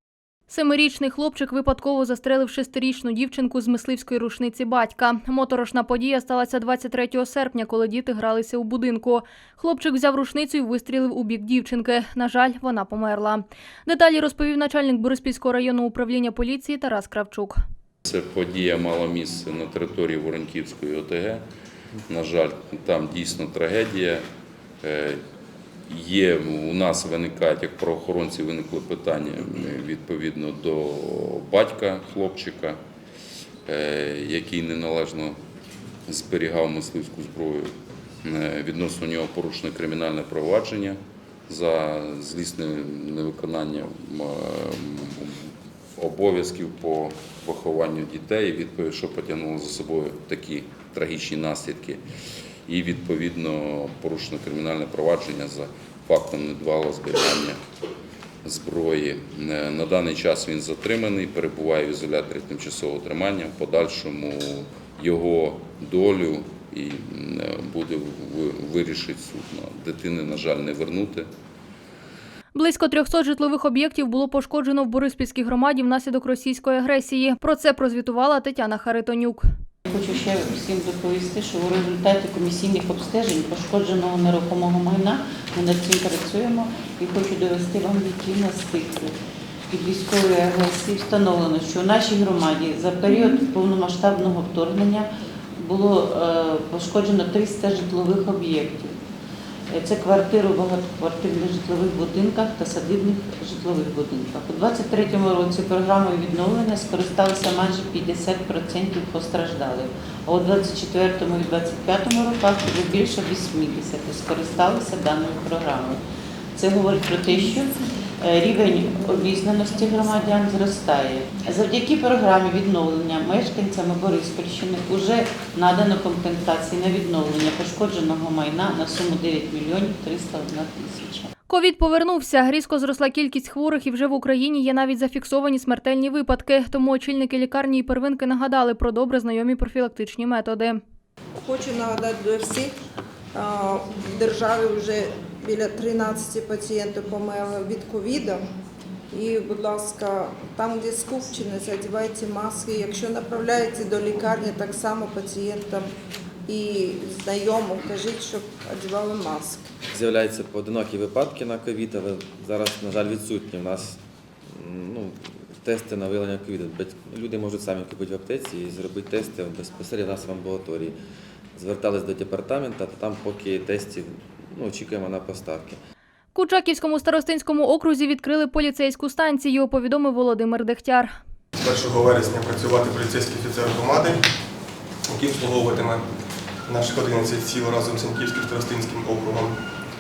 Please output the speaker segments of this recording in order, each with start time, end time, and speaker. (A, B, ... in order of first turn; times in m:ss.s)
0:00.5-0:17.6 A
0:18.1-0:21.4 B
0:22.1-0:24.2 B
0:24.8-0:25.2 B
0:25.9-0:32.8 B
0:33.7-0:35.4 B
0:36.1-0:37.7 B
0:38.2-0:45.4 B
0:46.0-0:52.0 B
0:52.7-0:57.6 B
0:58.4-1:11.3 B
1:12.5-1:19.4 A
1:19.9-1:29.1 C
1:29.7-1:35.1 C
1:35.6-1:39.0 C
1:39.7-1:56.0 C
1:56.6-2:11.3 C
2:11.5-2:20.8 A
2:21.4-2:22.7 D
2:23.3-2:28.4 D
2:29.1-2:35.9 D
2:36.5-2:39.7 D
2:39.9-2:51.0 E
2:51.6-2:55.8 E
2:56.3-3:01.1 A
3:01.6-3:04.3 F
3:05.1-3:06.1 F
3:06.7-3:09.6 F